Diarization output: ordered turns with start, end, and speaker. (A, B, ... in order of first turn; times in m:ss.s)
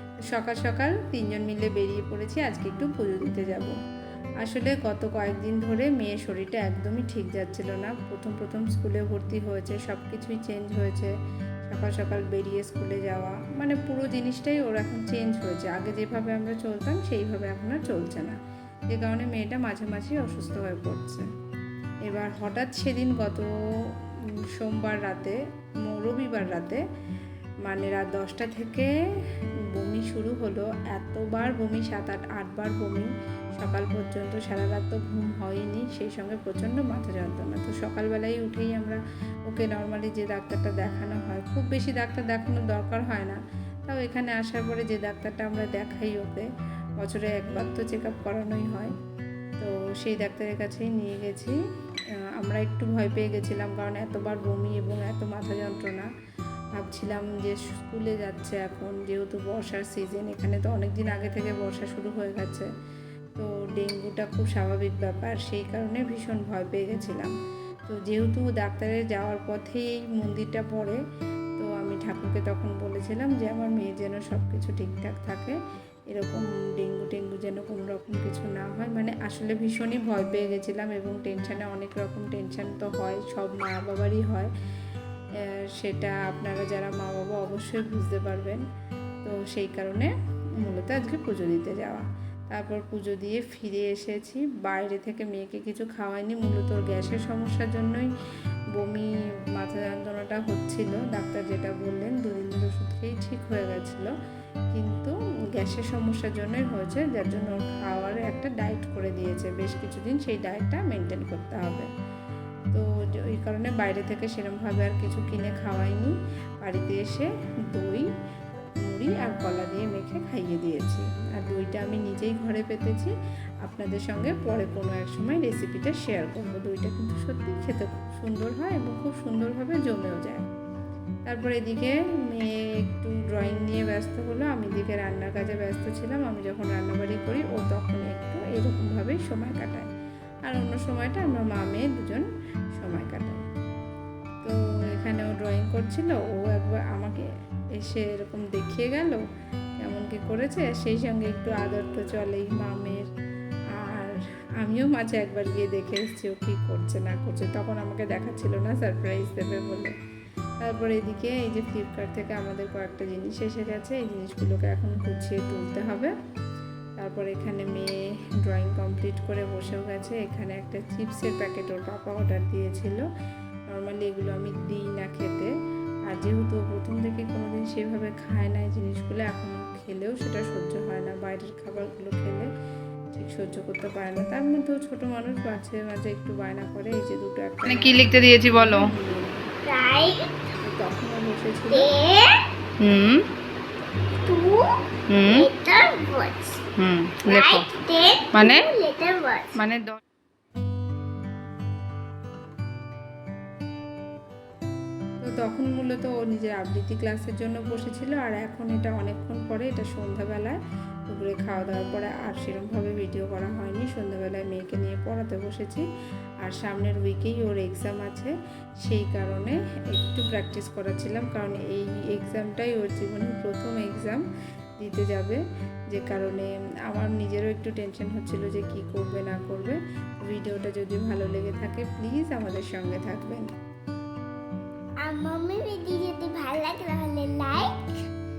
0:00.3-0:03.8 A
0:04.4-0:11.1 A
0:11.7-0:18.4 A
0:18.9-0:21.3 A
0:22.0-0:23.5 A
0:24.6-0:26.8 A
0:27.6-0:28.9 A
0:29.8-0:46.5 A
0:47.0-0:48.9 A
0:49.6-0:51.6 A
0:52.4-0:56.1 A
0:56.8-1:02.7 A
1:03.4-1:07.3 A
1:07.9-1:11.0 A
1:11.6-1:15.6 A
1:16.1-1:24.5 A
1:25.8-1:28.6 A
1:29.2-1:38.1 A
1:38.8-1:44.1 A
1:44.7-1:51.9 A
1:52.7-1:58.0 A
1:58.9-2:03.1 A
2:03.6-2:10.5 A
2:11.3-2:19.9 A
2:20.4-2:22.3 A
2:22.8-2:23.4 A
2:24.4-2:27.2 A
2:27.8-2:29.2 A
2:29.8-2:33.0 A
2:33.9-2:39.9 A
2:40.6-2:46.1 A
2:47.0-2:47.9 A
2:48.4-2:53.1 A
2:53.7-2:55.5 A
2:56.1-3:02.5 A
3:03.1-3:08.0 A
3:07.6-3:08.9 B
3:08.6-3:09.4 A
3:09.6-3:10.2 C
3:10.6-3:11.9 A
3:11.7-3:12.4 C
3:12.8-3:13.2 B
3:14.2-3:16.6 C
3:15.1-3:15.5 B
3:16.8-3:17.7 B
3:17.3-3:19.5 C
3:18.3-3:18.7 B
3:19.6-3:20.0 B
3:25.2-3:35.8 A
3:36.4-3:38.3 A
3:38.8-3:44.2 A
3:44.8-3:45.4 A
3:45.9-3:53.5 A
3:55.0-3:57.9 C